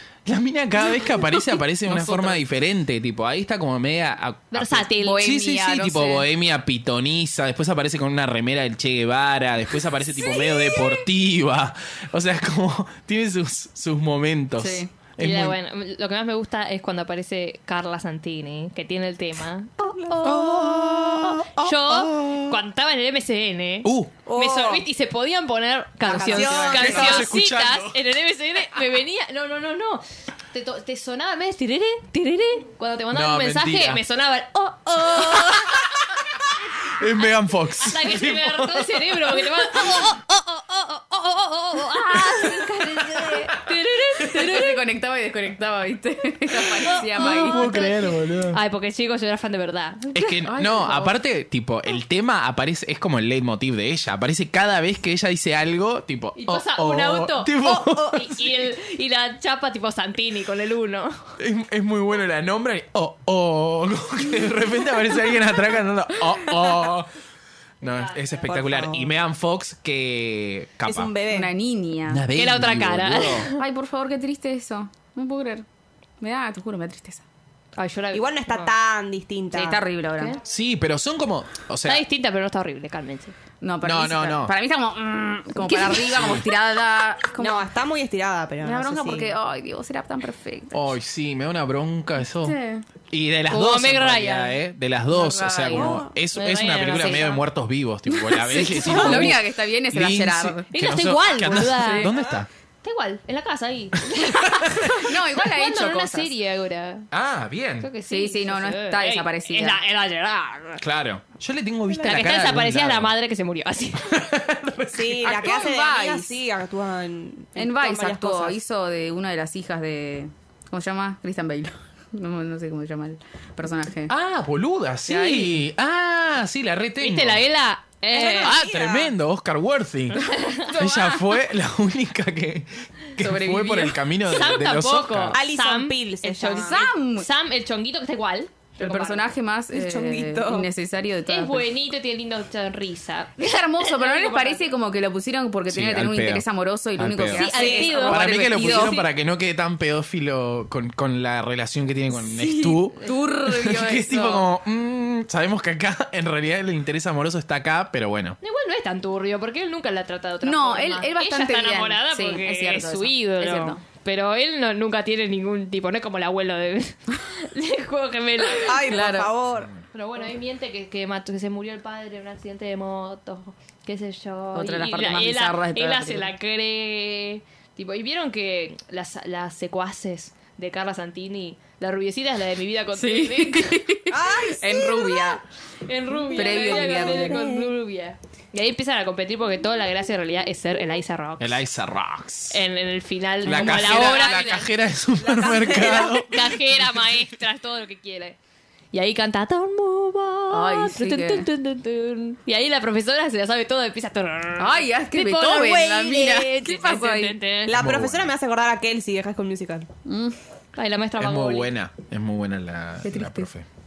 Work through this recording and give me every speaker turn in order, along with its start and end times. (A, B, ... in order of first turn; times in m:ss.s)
0:00.2-0:15.6 A
0:01.0-0:01.3 B
0:04.5-0:05.4 B
0:05.0-0:06.2 C
0:10.2-0:11.0 C
0:14.6-0:14.9 C
0:15.2-0:36.0 B
0:19.8-0:20.7 D
0:20.2-0:22.6 A
0:23.8-0:24.2 A
0:24.2-0:24.8 D
0:26.0-0:27.3 D
0:26.1-0:26.9 C
0:26.4-0:28.0 A
0:33.1-0:34.0 A
0:36.9-0:40.1 A
0:37.8-0:44.8 B
0:42.1-0:43.4 A
0:44.2-0:47.8 C
0:46.8-0:50.5 B
0:46.9-0:48.6 A
0:50.1-0:58.6 A
0:50.5-0:51.1 C
0:56.4-1:01.2 B
1:01.4-1:07.1 A
1:07.8-1:11.1 A
1:07.8-1:08.6 B
1:08.5-1:09.1 D
1:10.8-1:11.5 D
1:11.3-1:12.2 C
1:12.0-1:13.5 A
1:12.3-1:13.6 B
1:13.5-1:15.6 C
1:16.2-1:17.2 C
1:17.8-1:18.7 B
1:18.1-1:19.8 D
1:19.5-1:20.4 C
1:20.2-1:20.4 B
1:20.4-1:22.0 A
1:21.8-1:23.3 B
1:23.6-1:27.6 C
1:23.8-1:24.5 A
1:25.6-1:26.4 B
1:26.1-1:26.4 A
1:27.4-1:29.3 D
1:28.6-1:30.8 C
1:30.7-1:32.6 A
1:32.4-1:32.8 C
1:33.1-1:42.5 A
1:33.5-1:34.6 B
1:35.1-1:36.0 C
1:35.7-1:36.1 D
1:36.3-1:37.4 B
1:38.1-1:40.7 C
1:38.6-1:39.3 B
1:40.7-1:42.1 B
1:41.7-1:42.1 C
1:42.8-1:47.1 B
1:44.4-1:45.1 A
1:44.7-1:46.3 C
1:47.1-1:47.9 A
1:47.8-1:50.8 B
1:48.1-1:49.8 C
1:50.8-1:53.1 A
1:52.0-1:54.1 B
1:54.0-1:55.6 A
1:54.9-1:58.6 D
1:55.2-1:56.4 C
1:57.6-2:04.1 C
2:04.1-2:07.4 A
2:05.1-2:05.6 C
2:07.0-2:08.6 B
2:08.1-2:09.1 C
2:08.1-2:15.4 A
2:10.2-2:10.8 B
2:10.7-2:11.2 C
2:13.2-2:14.0 C
2:14.2-2:19.3 B
2:15.3-2:16.8 D
2:16.5-2:17.3 C
2:18.8-2:21.7 C
2:19.7-2:20.7 D
2:21.3-2:24.7 B
2:23.4-2:29.0 C
2:25.7-2:38.4 A
2:27.3-2:29.1 B
2:27.4-2:28.1 D
2:32.2-2:34.5 C
2:38.4-2:49.1 B
2:40.4-2:43.8 C
2:48.6-2:49.7 D
2:48.8-2:49.3 C
2:49.9-3:03.9 B
2:54.5-2:56.3 C
3:02.9-3:05.4 C
3:04.1-3:05.3 D
3:05.8-3:11.6 B
3:06.3-3:07.6 D
3:06.3-3:07.4 C
3:11.4-3:12.6 A
3:12.5-3:14.7 B
3:13.4-3:16.8 A
3:15.2-3:16.2 D
3:15.4-3:18.4 B
3:18.9-3:27.8 B
3:20.5-3:21.4 C
3:24.6-3:27.4 C
3:27.6-3:29.9 D
3:27.7-3:28.3 A
3:30.0-3:30.4 C
3:30.8-3:31.7 B
3:31.2-3:33.7 A
3:33.0-3:33.5 C